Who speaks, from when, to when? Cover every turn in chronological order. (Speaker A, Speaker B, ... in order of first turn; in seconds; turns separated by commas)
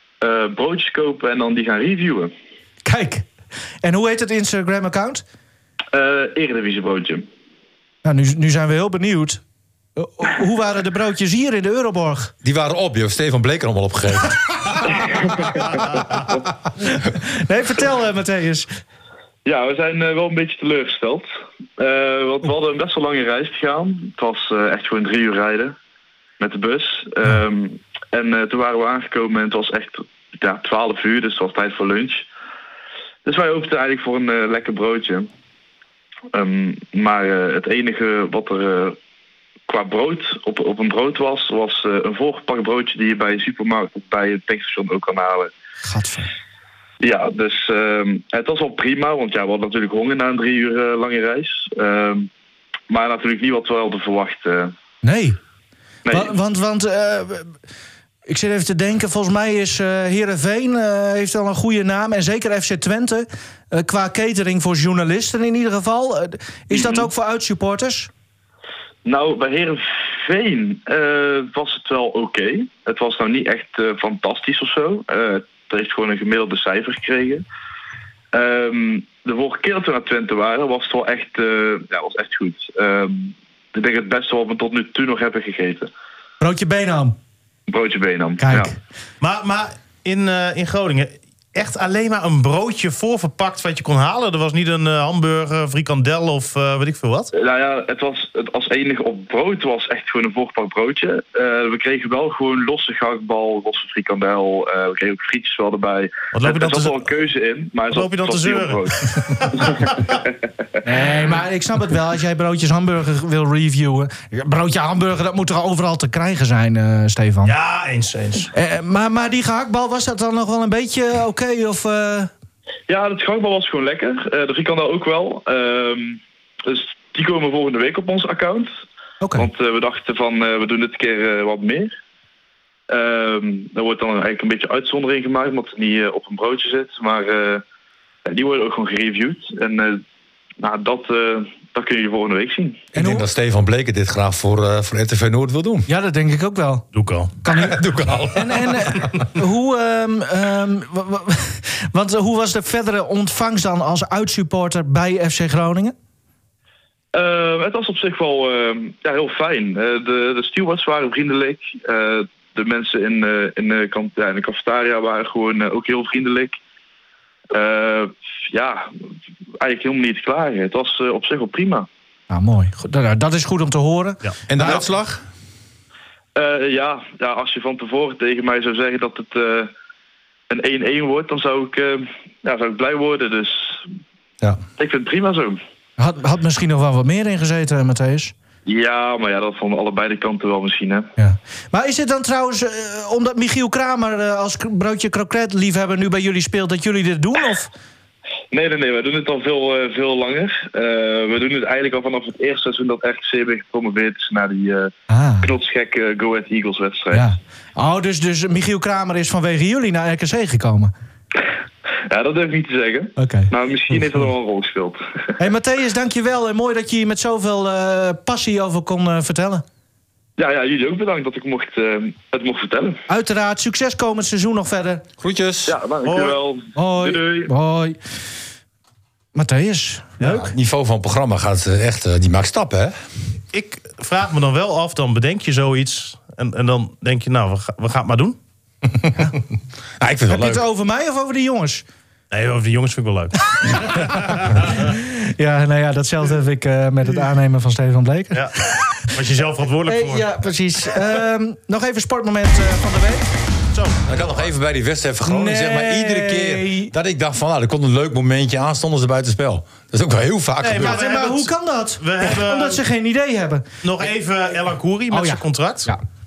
Speaker A: 0.2-2.3, Speaker B: 2.8-3.3, Speaker B: 3.8-5.2, Speaker A: 5.9-7.3, Speaker B: 8.0-9.4, Speaker B: 10.0-12.3, Speaker C: 12.4-14.4, Speaker A: 15.3-15.7, Speaker B: 16.9-18.7, Speaker A: 19.4-25.8, Speaker A: 26.4-32.3, Speaker A: 33.2-35.3, Speaker A: 36.3-39.0, Speaker A: 39.7-45.5, Speaker B: 45.8-46.3, Speaker A: 47.0-52.3, Speaker A: 52.9-54.7, Speaker B: 55.0-55.4, Speaker A: 56.0-56.3, Speaker B: 56.1-57.5, Speaker B: 58.3-68.1, Speaker A: 66.7-67.1, Speaker A: 69.0-77.4, Speaker A: 78.3-85.9, Speaker B: 86.4-87.2, Speaker A: 87.7-88.7, Speaker B: 88.4-88.8, Speaker D: 89.2-97.3, Speaker A: 97.3-110.0, Speaker D: 106.3-107.1, Speaker D: 107.9-110.2, Speaker B: 110.8-117.5, Speaker D: 117.5-118.5, Speaker B: 118.5-122.3, Speaker A: 122.9-128.8, Speaker B: 129.2-129.5, Speaker A: 129.3-132.0, Speaker A: 132.9-137.6, Speaker A: 138.3-140.0, Speaker A: 140.6-142.8, Speaker C: 142.9-145.9, Speaker B: 143.0-143.3, Speaker B: 145.9-146.9, Speaker D: 146.9-147.4, Speaker B: 147.4-147.8, Speaker C: 147.5-149.1, Speaker B: 148.3-155.9, Speaker A: 157.1-166.6, Speaker A: 167.5-168.9, Speaker A: 169.6-171.9, Speaker B: 172.3-174.8, Speaker C: 174.5-175.2, Speaker A: 176.3-179.7, Speaker A: 180.5-183.8, Speaker A: 184.8-185.6, Speaker B: 186.0-188.3, Speaker A: 188.7-191.1, Speaker B: 191.2-197.7, Speaker A: 198.5-207.3, Speaker B: 205.1-205.5, Speaker B: 207.1-210.9, Speaker A: 212.1-215.0, Speaker B: 213.2-213.5, Speaker B: 215.4-219.7, Speaker A: 220.4-223.0, Speaker B: 223.1-225.0, Speaker C: 225.2-225.8, Speaker A: 225.7-227.5, Speaker D: 226.1-226.4, Speaker B: 226.8-228.0, Speaker B: 229.3-230.6, Speaker C: 230.2-232.9, Speaker D: 233.5-238.4, Speaker C: 240.0-240.6, Speaker B: 240.3-241.8, Speaker D: 242.3-244.9, Speaker B: 244.6-249.1, Speaker D: 248.3-248.6, Speaker D: 249.1-250.3, Speaker B: 249.9-253.3, Speaker D: 253.7-254.5, Speaker C: 254.1-261.0, Speaker B: 255.2-256.9, Speaker D: 260.6-262.8, Speaker B: 260.8-263.7, Speaker D: 263.8-265.9, Speaker B: 265.1-266.0